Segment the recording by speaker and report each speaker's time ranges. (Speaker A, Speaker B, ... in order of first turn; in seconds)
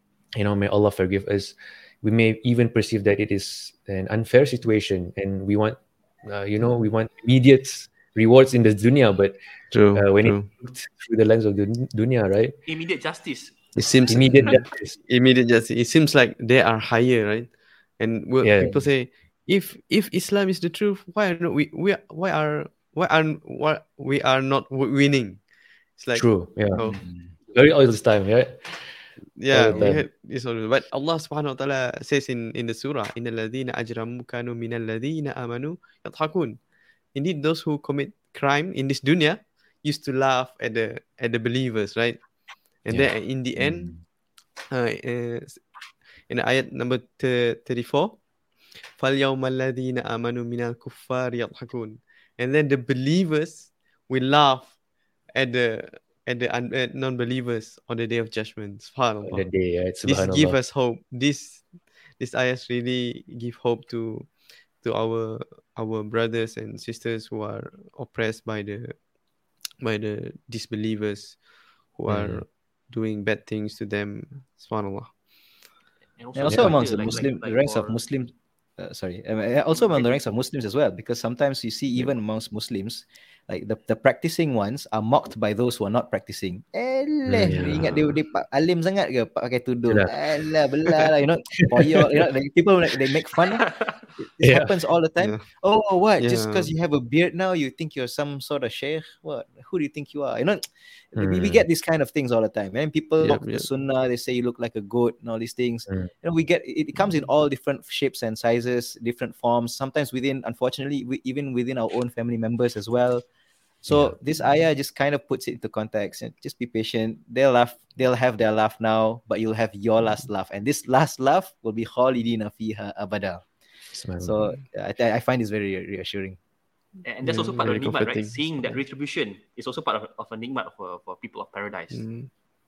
Speaker A: 0.4-9.3, 9.9-12.6, 14.1-15.0, 18.4-18.9, 26.1-26.9, 27.5-28.9, 29.5-30.0, 59.2-60.6, 72.1-72.4, 76.5-76.8, 87.3-88.0, 89.9-90.2, 91.8-92.2, 94.4-94.7, 101.2-101.6, 113.9-114.1, 123.9-124.4
Speaker B: 9.7-10.5, 13.8-25.4, 25.9-27.0, 29.4-36.6, 37.1-42.2, 42.8-44.0, 44.7-45.6, 46.3-48.2, 49.0-54.7, 55.3-59.5, 60.0-69.0, 69.8-75.2, 87.5-88.0, 95.2-95.4, 96.2-96.7, 103.2-103.7, 127.2-128.8, 131.9-132.3
Speaker C: 12.7-13.7, 76.2-78.0, 79.8-80.1, 93.7-93.9, 127.0-132.0
Speaker D: 26.8-27.3, 29.6-30.0, 43.5-44.0, 76.3-93.7, 94.2-113.2, 113.8-123.4, 124.2-126.4